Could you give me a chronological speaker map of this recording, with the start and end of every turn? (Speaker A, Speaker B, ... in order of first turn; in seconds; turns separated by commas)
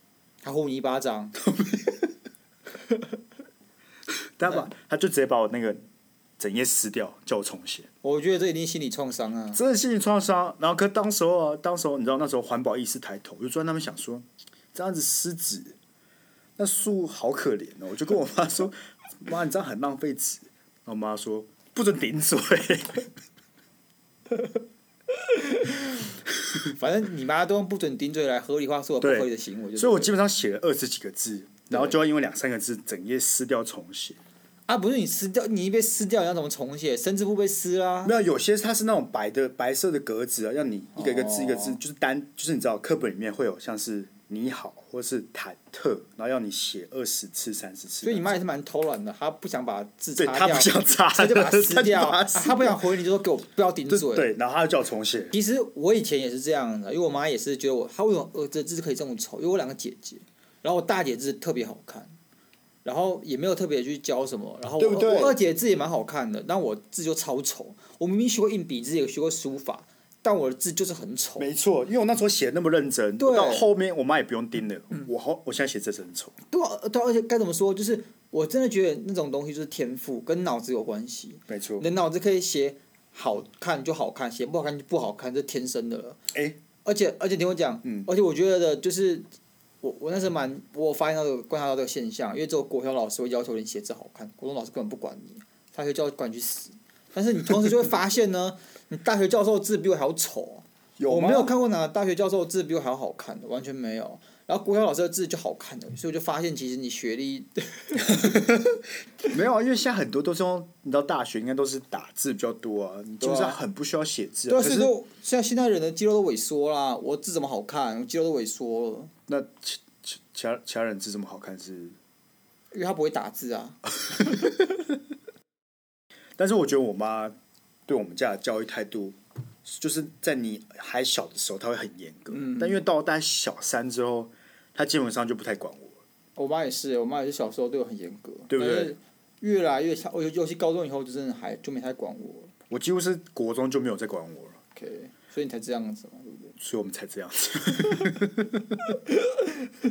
Speaker A: 0.4-1.3, Speaker B: 1.4-2.1, Speaker B: 4.4-5.8, Speaker B: 6.4-7.9, Speaker A: 8.0-9.6, Speaker B: 9.5-15.8, Speaker B: 16.6-23.1, Speaker A: 26.7-30.1, Speaker B: 29.0-34.2, Speaker A: 34.7-38.1, Speaker B: 38.0-48.3, Speaker A: 41.0-41.8, Speaker A: 48.0-54.3, Speaker B: 50.2-52.8, Speaker B: 53.9-55.3, Speaker A: 55.3-62.1, Speaker A: 62.8-71.5, Speaker B: 64.8-65.4, Speaker B: 71.4-76.3, Speaker A: 73.2-73.7, Speaker A: 76.5-86.2, Speaker B: 81.5-81.9, Speaker B: 86.3-86.6, Speaker A: 86.8-89.2, Speaker B: 87.8-88.1, Speaker A: 89.8-108.3, Speaker B: 101.0-101.5, Speaker B: 108.0-114.9, Speaker A: 113.2-113.6, Speaker A: 114.5-119.1, Speaker B: 119.3-122.0, Speaker A: 122.7-123.8, Speaker B: 126.4-127.3, Speaker B: 127.9-136.0, Speaker A: 132.3-132.8, Speaker A: 136.3-142.5, Speaker B: 138.5-138.9, Speaker B: 142.7-144.6, Speaker A: 144.8-146.5, Speaker B: 146.6-149.0, Speaker A: 149.1-149.7